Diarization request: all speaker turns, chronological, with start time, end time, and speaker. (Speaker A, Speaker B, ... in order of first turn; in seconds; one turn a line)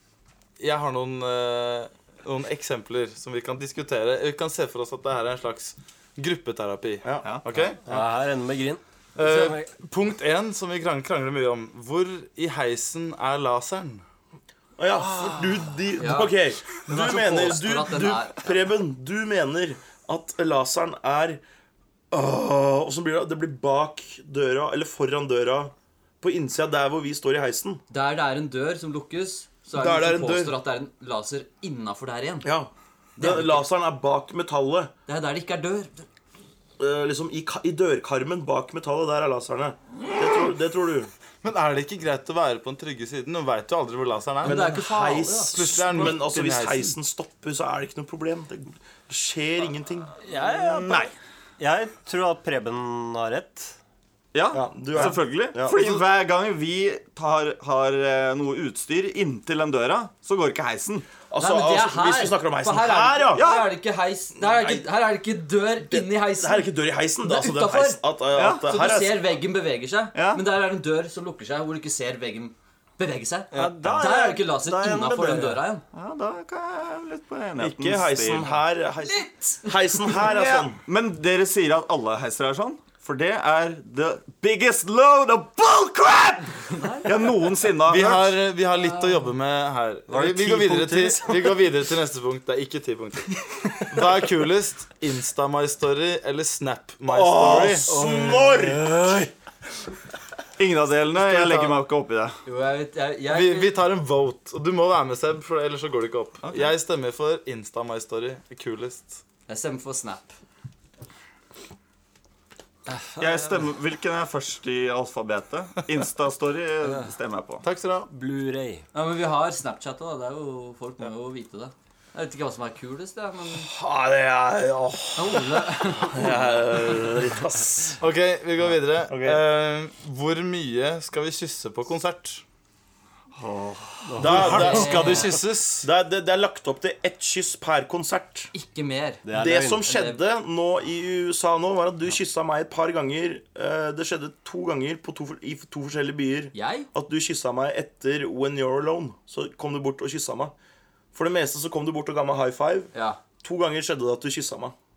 Speaker A: 0.6-8.1
Speaker B: 7.0-7.4
Speaker C: 7.8-9.7
Speaker A: 9.2-14.0
Speaker B: 14.8-21.4
Speaker D: 15.9-18.4
Speaker B: 22.1-27.8
Speaker D: 27.9-32.5
Speaker B: 29.7-30.6
Speaker B: 32.4-34.9
Speaker D: 33.2-33.7
Speaker D: 35.1-36.0
Speaker B: 36.8-41.1
Speaker A: 41.4-44.8
Speaker D: 44.4-46.1
Speaker B: 44.4-50.1
Speaker A: 45.4-46.9
Speaker C: 50.2-53.8
Speaker E: 54.3-61.0
Speaker B: 54.5-55.7
Speaker B: 61.3-63.5
Speaker D: 61.4-66.7
Speaker E: 63.3-63.7
Speaker B: 64.4-64.9
Speaker B: 65.8-69.3
Speaker D: 67.2-75.8
Speaker E: 68.3-68.6
Speaker E: 70.1-70.4
Speaker C: 73.5-75.7
Speaker E: 75.9-78.6
Speaker B: 77.6-80.8
Speaker D: 79.0-80.6
Speaker E: 80.5-88.4
Speaker D: 86.7-87.1
Speaker A: 87.8-93.3
Speaker C: 90.1-91.7
Speaker A: 93.9-97.9
Speaker B: 97.1-99.3
Speaker C: 97.3-98.8
Speaker E: 100.6-102.4
Speaker A: 101.3-101.7
Speaker D: 102.4-103.8
Speaker A: 103.3-109.2
Speaker E: 106.4-106.7
Speaker D: 109.5-110.4
Speaker E: 113.2-117.6
Speaker A: 117.6-118.1
Speaker C: 118.1-118.8
Speaker D: 118.9-123.7
Speaker B: 123.6-128.0
Speaker D: 125.2-126.3
Speaker A: 128.0-132.4
Speaker B: 129.1-129.4
Speaker E: 133.3-134.0
Speaker C: 134.1-135.4
Speaker B: 134.2-135.2
Speaker A: 134.2-135.9
Speaker D: 134.5-135.3
Speaker B: 135.8-138.5
Speaker D: 138.5-139.2
Speaker C: 139.2-139.9
Speaker B: 139.3-150.5
Speaker D: 139.8-140.2
Speaker D: 146.5-146.9
Speaker B: 151.1-152.9
Speaker D: 152.9-153.2
Speaker B: 153.4-154.7